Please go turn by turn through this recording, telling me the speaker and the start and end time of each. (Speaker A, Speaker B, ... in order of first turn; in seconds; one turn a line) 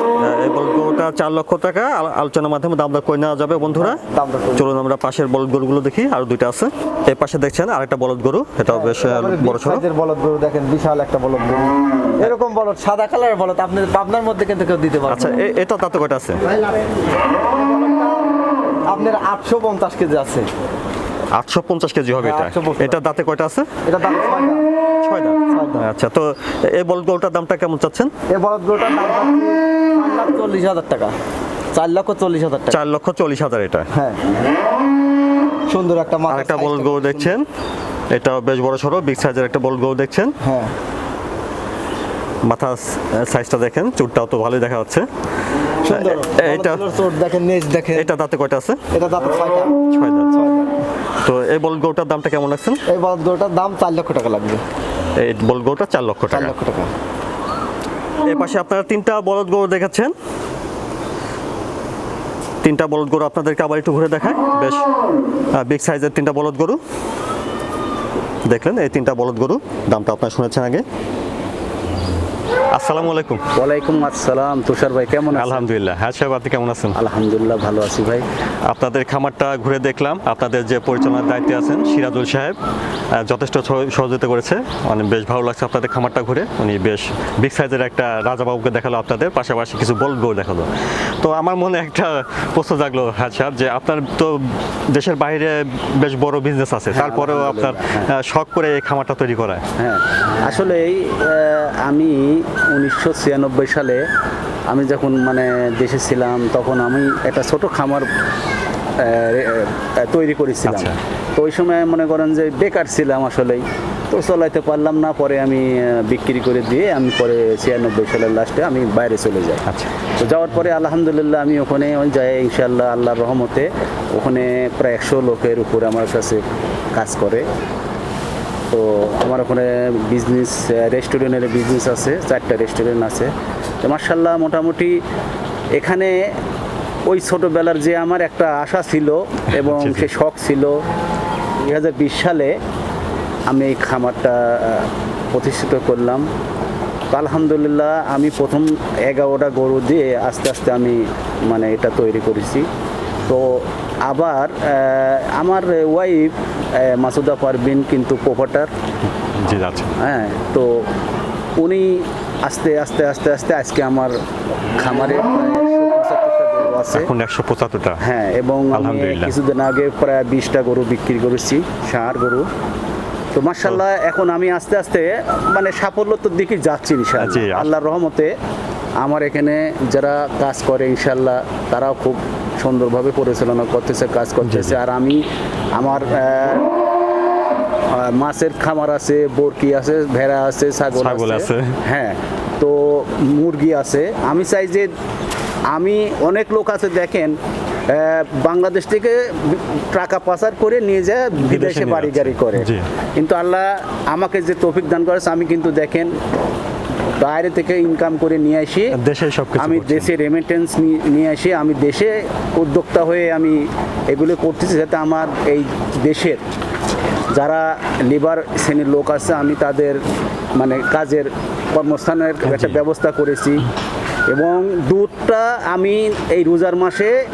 Speaker A: 0.2-4.0
Speaker B: 3.8-4.7
Speaker A: 4.5-9.8
Speaker B: 8.7-15.4
Speaker A: 15.1-16.4
Speaker B: 17.3-20.5
Speaker A: 21.4-23.7
Speaker B: 22.2-23.0
Speaker B: 23.8-24.6
Speaker A: 25.0-28.1
Speaker B: 25.5-25.9
Speaker B: 28.3-31.1
Speaker B: 31.7-32.8
Speaker A: 32.7-33.9
Speaker B: 33.9-34.2
Speaker B: 35.7-37.4
Speaker A: 36.3-37.5
Speaker A: 38.1-40.3
Speaker B: 40.4-40.7
Speaker A: 42.4-45.1
Speaker A: 45.8-46.8
Speaker B: 45.8-48.1
Speaker A: 47.9-48.8
Speaker B: 48.9-49.8
Speaker A: 49.9-50.3
Speaker B: 50.3-50.8
Speaker A: 51.2-52.8
Speaker B: 52.9-54.6
Speaker A: 55.2-56.5
Speaker B: 56.3-56.9
Speaker A: 58.2-60.1
Speaker A: 62.6-64.9
Speaker A: 65.5-66.8
Speaker A: 68.5-70.8
Speaker A: 72.7-73.4
Speaker C: 73.5-75.7
Speaker A: 75.3-77.0
Speaker C: 76.9-78.2
Speaker A: 78.7-82.5
Speaker A: 83.2-90.7
Speaker A: 91.2-94.4
Speaker A: 94.9-99.6
Speaker C: 96.9-98.1
Speaker C: 99.8-104.0
Speaker C: 104.7-108.1
Speaker C: 109.0-119.6
Speaker A: 110.6-111.0
Speaker C: 120.2-126.4
Speaker C: 126.9-127.4
Speaker C: 128.7-133.3
Speaker C: 133.8-135.0
Speaker C: 135.8-136.1
Speaker C: 137.1-140.8
Speaker A: 139.5-140.1
Speaker C: 141.6-142.5
Speaker C: 143.5-146.2
Speaker C: 147.1-152.7
Speaker C: 153.3-158.7
Speaker A: 159.4-159.9
Speaker C: 160.0-160.7
Speaker C: 161.6-164.1
Speaker C: 164.7-167.1
Speaker A: 166.9-168.0
Speaker C: 168.0-172.4
Speaker A: 168.7-169.3
Speaker C: 173.3-178.3
Speaker A: 177.2-177.7
Speaker C: 179.0-185.2
Speaker A: 184.4-184.8
Speaker C: 185.8-186.7
Speaker C: 187.9-194.9
Speaker A: 190.9-191.8
Speaker C: 195.7-197.3
Speaker C: 197.9-206.1
Speaker A: 201.4-202.8
Speaker C: 207.2-208.9
Speaker A: 208.9-210.1
Speaker C: 209.6-216.4
Speaker C: 217.3-220.0
Speaker C: 220.6-223.7
Speaker A: 222.4-222.8
Speaker C: 224.3-227.2